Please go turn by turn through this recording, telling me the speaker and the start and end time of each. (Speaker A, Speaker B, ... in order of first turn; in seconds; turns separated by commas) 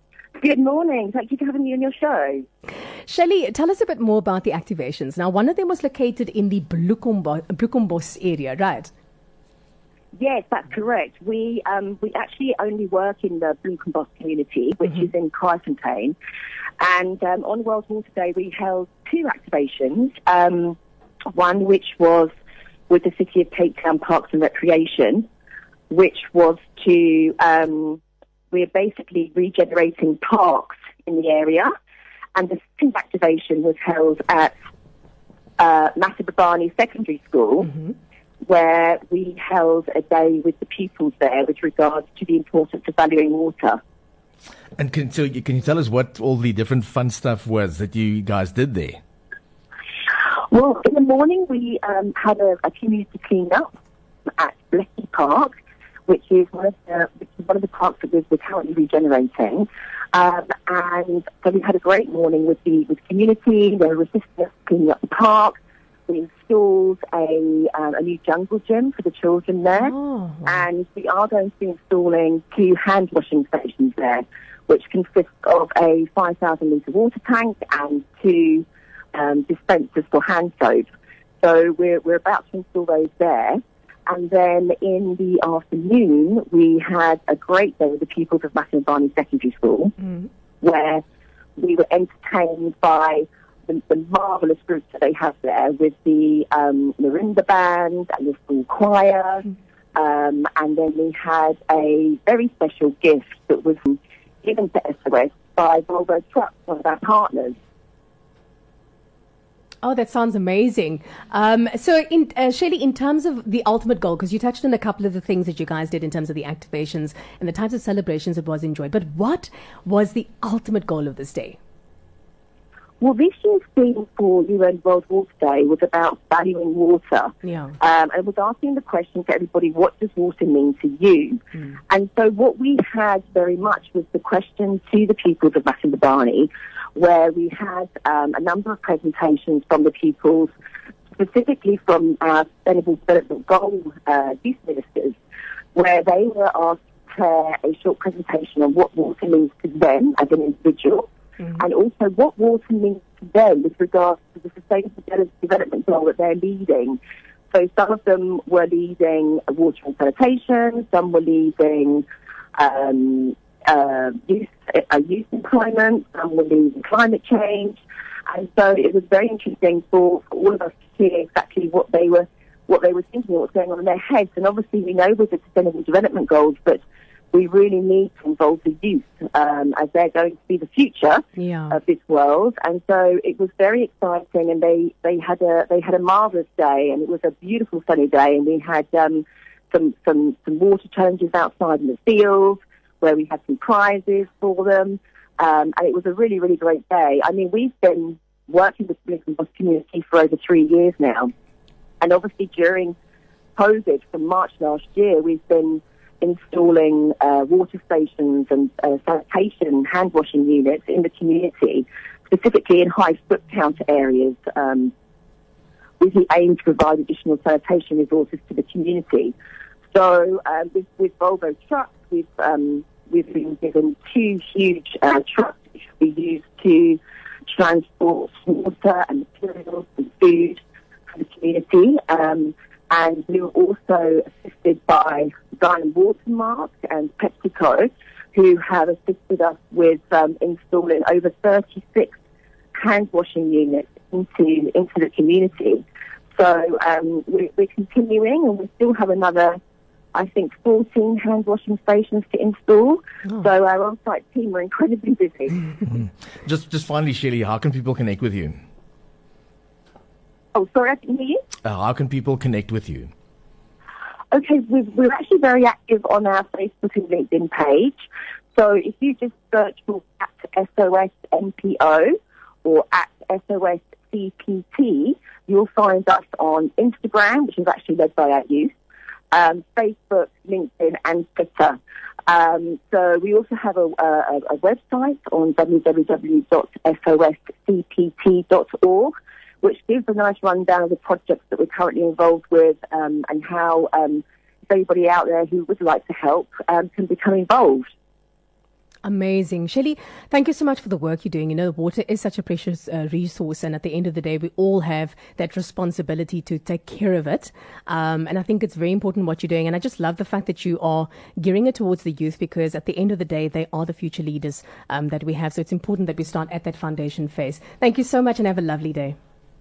Speaker A: 0.4-2.5, Speaker B: 3.1-8.9, Speaker A: 10.2-16.1, Speaker A: 16.8-20.8, Speaker A: 21.3-22.3, Speaker A: 22.9-25.3, Speaker A: 25.9-31.7, Speaker A: 32.3-34.5, Speaker A: 35.6-37.8, Speaker A: 38.4-43.8, Speaker C: 44.8-49.0, Speaker A: 50.5-53.7, Speaker A: 54.4-55.5, Speaker A: 56.1-65.6, Speaker A: 66.1-69.9, Speaker B: 69.8-70.6, Speaker A: 70.5-80.8, Speaker A: 81.4-90.0, Speaker A: 90.6-91.0, Speaker A: 91.6-107.5, Speaker B: 109.8-121.6, Speaker A: 123.0-140.5, Speaker B: 127.5-127.7, Speaker A: 141.2-145.2, Speaker A: 145.7-157.0, Speaker A: 157.5-176.8, Speaker A: 177.3-201.3, Speaker B: 181.4-181.8, Speaker A: 202.0-202.9, Speaker A: 203.6-214.9, Speaker A: 216.0-219.3, Speaker A: 219.9-230.6, Speaker A: 231.1-242.2, Speaker A: 242.7-245.8, Speaker A: 246.3-249.6, Speaker A: 250.1-255.7, Speaker C: 255.8-258.6, Speaker A: 260.6-261.4, Speaker C: 261.6-263.1, Speaker A: 264.3-268.0, Speaker A: 268.6-278.7, Speaker A: 279.3-297.9, Speaker B: 299.0-319.2